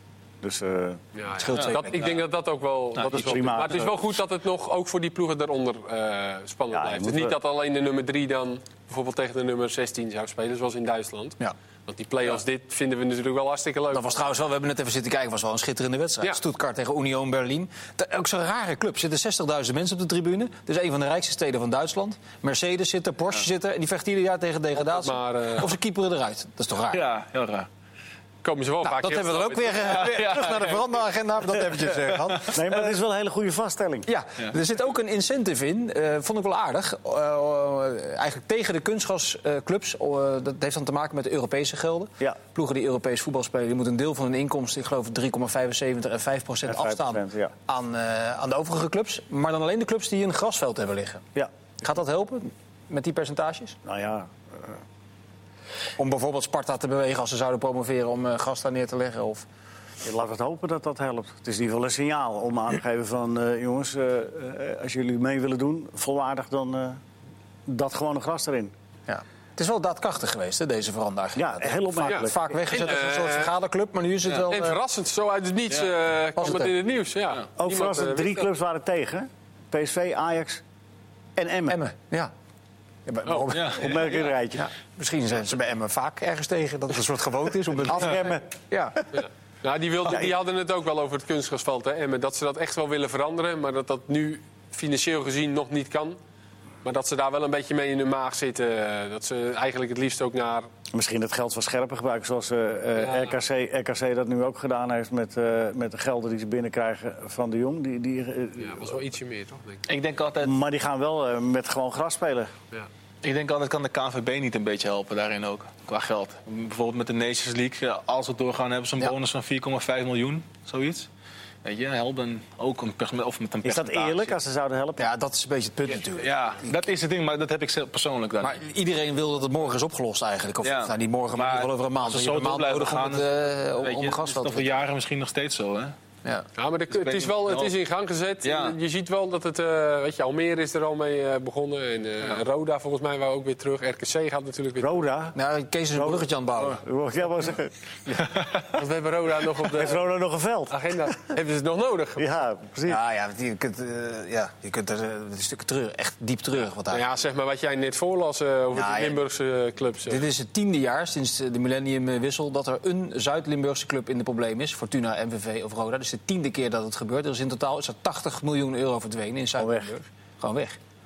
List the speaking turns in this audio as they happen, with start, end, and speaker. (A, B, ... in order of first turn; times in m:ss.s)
0:00.4-0:01.0 A
0:01.1-0:14.2 B
0:01.4-0:02.2 C
0:01.5-0:02.1 D
0:03.0-0:03.5 D
0:03.0-0:04.0 A
0:06.7-0:07.3 A
0:13.9-0:27.0 C
0:24.8-0:25.7 B
0:26.9-0:27.7 D
0:28.4-0:30.1 B
0:28.8-0:32.9 C
0:29.9-0:30.8 D
0:32.4-0:34.1 A
0:34.1-0:51.2 C
0:46.7-0:47.5 A
0:51.8-0:53.8 C
0:53.8-0:54.8 A
0:56.0-0:59.4 C
1:00.0-1:07.0 A
1:07.7-1:08.7 A
1:09.1-1:14.8 C
1:11.4-1:12.6 A
1:12.1-1:13.5 B
1:14.4-1:18.5 B
1:16.4-1:16.7 C
1:17.6-1:20.6 A
1:21.4-1:21.8 A
1:21.7-1:22.3 C
1:23.0-1:29.0 C
1:23.5-1:24.3 D
1:23.6-1:24.7 A
1:27.8-1:28.5 A
1:29.1-1:36.2 B
1:36.8-1:40.7 B
1:40.9-1:49.0 A
1:43.0-1:43.4 B
1:48.6-1:49.8 B
1:49.8-1:50.5 D
1:50.4-1:52.5 A
1:53.2-2:01.1 D
2:01.6-2:04.3 D
2:03.6-2:05.0 A
2:05.0-2:06.7 C
2:06.1-2:08.6 D
2:08.4-2:14.7 C
2:10.6-2:15.9 D
2:16.6-2:25.0 B
2:16.9-2:17.7 D
2:18.4-2:18.8 D
2:24.8-2:25.4 A
2:25.3-2:26.8 C
2:25.9-2:28.2 A
2:28.7-2:30.0 B
2:29.7-2:30.7 A
2:30.7-2:32.3 B
2:32.2-2:33.0 A
2:32.8-2:37.0 C
2:36.9-2:40.2 B
2:38.7-2:39.2 C
2:40.1-2:50.8 C
2:49.6-2:49.9 A